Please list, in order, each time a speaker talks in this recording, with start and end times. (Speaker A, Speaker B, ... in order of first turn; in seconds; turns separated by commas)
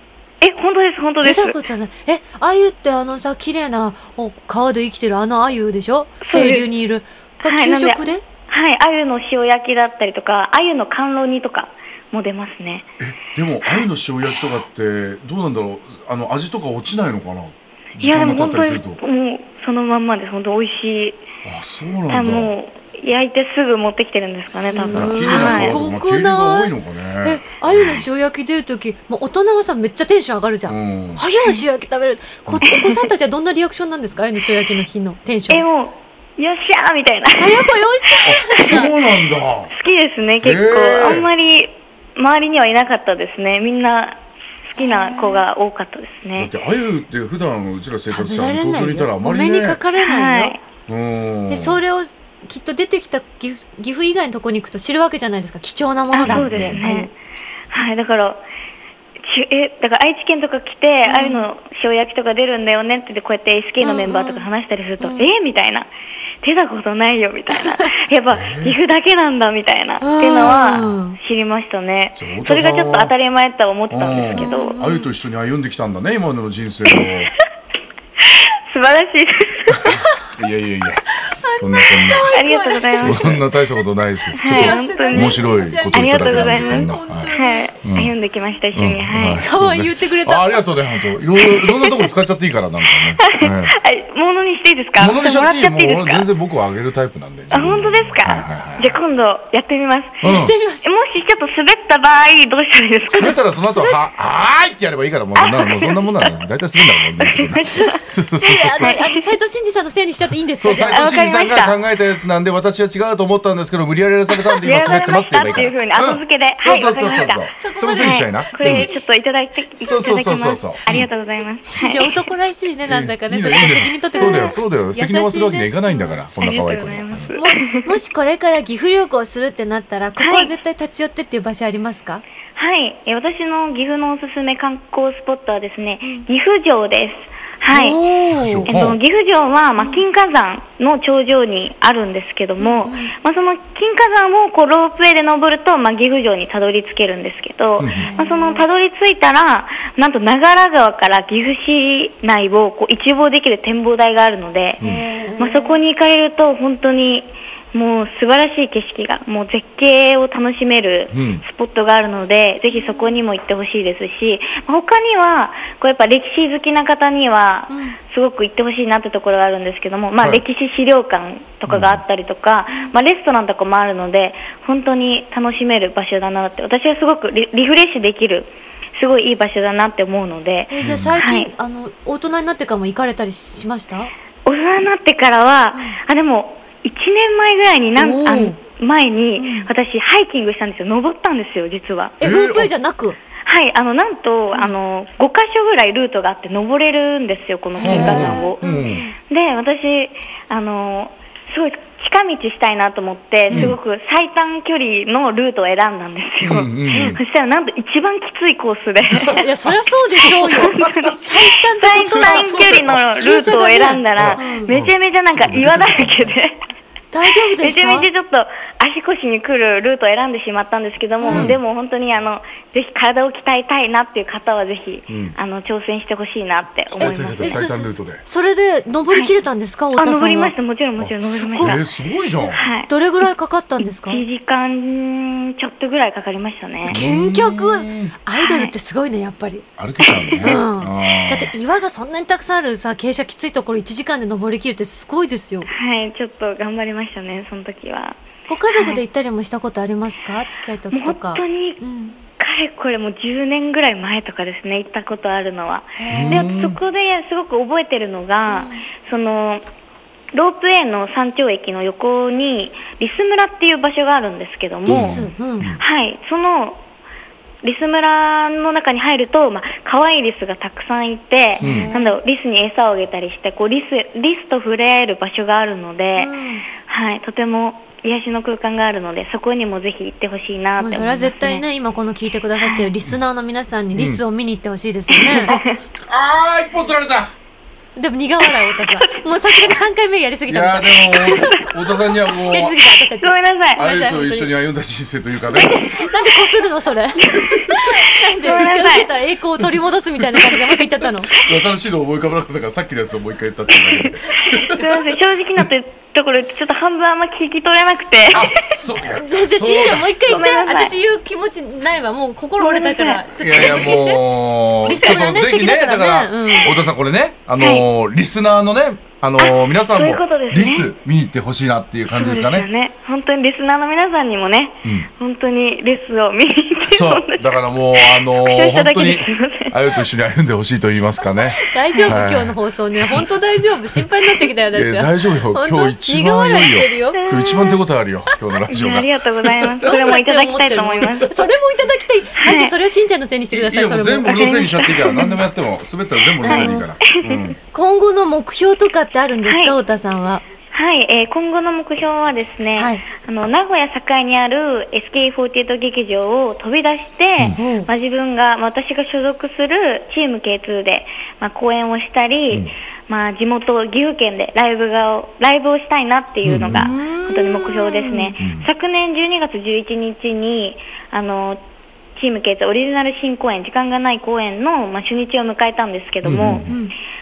Speaker A: 0.4-1.6, Speaker B: 1.2-8.2, Speaker A: 6.2-6.7, Speaker A: 7.4-12.9, Speaker C: 13.0-19.0, Speaker A: 18.0-21.2, Speaker C: 21.4-22.5, Speaker A: 22.1-25.8, Speaker B: 24.6-35.6, Speaker C: 24.9-28.1, Speaker C: 30.7-31.2, Speaker A: 32.6-33.0, Speaker A: 35.5-37.8, Speaker B: 37.4-38.9, Speaker C: 38.2-39.7, Speaker A: 39.7-44.2, Speaker C: 40.4-41.3, Speaker A: 44.7-46.5, Speaker B: 44.8-45.4, Speaker C: 46.4-49.8, Speaker B: 48.1-50.6, Speaker A: 50.0-50.6, Speaker C: 50.9-51.8, Speaker B: 51.5-57.1, Speaker A: 56.1-57.1, Speaker C: 56.2-56.8, Speaker A: 57.7-58.4, Speaker A: 59.2-65.9, Speaker B: 61.0-61.5, Speaker B: 63.8-64.5, Speaker B: 65.0-65.3, Speaker A: 66.4-74.8, Speaker B: 67.5-67.9, Speaker C: 68.3-68.8, Speaker B: 70.0-71.2, Speaker C: 70.4-71.0, Speaker C: 72.2-73.1, Speaker C: 73.9-77.3, Speaker B: 74.3-75.1, Speaker A: 78.2-80.0, Speaker C: 79.7-82.4, Speaker B: 79.9-80.3, Speaker B: 81.2-83.4, Speaker A: 82.3-83.4, Speaker C: 83.0-88.1, Speaker B: 84.3-87.7, Speaker A: 84.4-89.4, Speaker C: 88.7-93.7, Speaker B: 89.3-90.7, Speaker A: 91.6-92.1, Speaker A: 93.2-96.3, Speaker C: 95.0-99.0, Speaker A: 97.5-103.3, Speaker C: 100.2-100.5, Speaker B: 100.2-100.9, Speaker B: 103.1-104.0, Speaker C: 103.2-109.0, Speaker A: 105.4-106.3, Speaker A: 107.0-107.9, Speaker B: 107.7-111.3, Speaker A: 108.8-109.2, Speaker C: 110.6-118.9, Speaker A: 110.9-111.8, Speaker A: 114.5-122.2, Speaker B: 116.9-119.0, Speaker C: 119.8-121.1, Speaker B: 121.6-126.1, Speaker C: 122.8-127.3, Speaker A: 124.2-124.5, Speaker A: 126.4-127.9, Speaker B: 127.3-132.2, Speaker A: 130.2-130.5, Speaker A: 132.6-138.1, Speaker B: 137.7-138.7, Speaker C: 138.3-139.0, Speaker A: 138.7-154.8, Speaker B: 139.8-140.0, Speaker B: 142.6-143.1, Speaker C: 147.8-148.1, Speaker B: 147.9-148.7, Speaker B: 154.8-155.8, Speaker A: 155.4-181.5, Speaker C: 161.1-161.4, Speaker B: 162.7-163.2, Speaker B: 167.7-168.0, Speaker C: 170.2-170.4, Speaker C: 171.7-172.0, Speaker B: 180.7-184.1, Speaker C: 180.8-181.2, Speaker A: 184.4-192.2, Speaker B: 187.9-188.6, Speaker B: 189.4-189.7, Speaker B: 192.2-193.2, Speaker C: 192.2-192.7, Speaker A: 193.4-198.6, Speaker B: 197.8-199.1, Speaker C: 197.8-199.0, Speaker A: 199.3-209.4, Speaker C: 203.5-203.8, Speaker C: 206.4-207.2, Speaker B: 206.9-207.2, Speaker C: 209.1-209.4, Speaker B: 209.2-214.7, Speaker C: 210.2-211.1, Speaker A: 210.4-211.2, Speaker A: 211.8-216.6, Speaker C: 212.0-213.0, Speaker C: 214.1-216.4, Speaker B: 217.1-218.1, Speaker A: 217.6-227.7, Speaker B: 221.2-221.5, Speaker C: 221.3-221.6, Speaker C: 225.1-225.3, Speaker C: 227.0-228.2, Speaker B: 227.0-230.5, Speaker A: 229.9-231.8, Speaker C: 231.0-232.6, Speaker B: 231.4-231.8, Speaker A: 232.5-232.9, Speaker B: 232.9-234.2, Speaker A: 234.1-237.0, Speaker B: 236.8-239.7, Speaker C: 236.9-238.1, Speaker A: 238.4-238.7, Speaker C: 239.8-241.5, Speaker A: 240.0-240.6, Speaker B: 240.4-245.7, Speaker A: 245.7-248.2, Speaker B: 248.5-252.2, Speaker A: 248.7-249.0, Speaker A: 250.9-251.8, Speaker A: 252.3-259.6, Speaker B: 256.0-256.5, Speaker C: 256.1-256.8, Speaker B: 258.5-258.8, Speaker A: 260.3-265.3, Speaker C: 264.9-265.8, Speaker B: 264.9-265.7, Speaker A: 265.8-266.8, Speaker A: 267.6-281.6, Speaker B: 271.6-272.2, Speaker C: 271.6-271.9, Speaker B: 276.2-276.6, Speaker B: 280.8-285.6, Speaker C: 283.9-284.2, Speaker A: 285.1-285.8, Speaker C: 285.9-287.3, Speaker B: 287.9-291.7, Speaker C: 290.5-292.8, Speaker B: 292.3-294.5, Speaker A: 293.2-293.8, Speaker C: 293.8-296.1, Speaker B: 295.5-301.3, Speaker A: 297.2-297.5, Speaker C: 297.3-297.7, Speaker A: 298.4-299.1, Speaker C: 299.6-305.7, Speaker A: 303.9-308.6, Speaker C: 308.3-310.1, Speaker B: 309.1-314.2, Speaker A: 310.3-310.9, Speaker A: 312.6-313.2, Speaker C: 313.4-322.7, Speaker B: 314.8-316.7, Speaker A: 317.6-317.9, Speaker A: 319.4-320.9, Speaker A: 322.2-330.0, Speaker C: 324.8-325.1, Speaker C: 326.9-334.1, Speaker B: 331.3-337.2, Speaker C: 334.7-339.9, Speaker A: 337.1-337.8, Speaker A: 338.7-341.4, Speaker B: 339.8-344.4, Speaker A: 342.4-342.8, Speaker C: 343.5-347.6, Speaker A: 344.3-345.2, Speaker B: 345.0-345.4, Speaker A: 346.4-347.5, Speaker B: 346.4-346.9, Speaker B: 347.7-350.4, Speaker A: 349.4-349.8, Speaker A: 350.7-371.6, Speaker B: 352.8-353.1, Speaker B: 357.6-357.9, Speaker C: 366.4-366.9, Speaker B: 366.7-368.3, Speaker C: 368.4-368.7, Speaker A: 372.2-376.7, Speaker C: 376.2-376.7, Speaker B: 376.6-376.9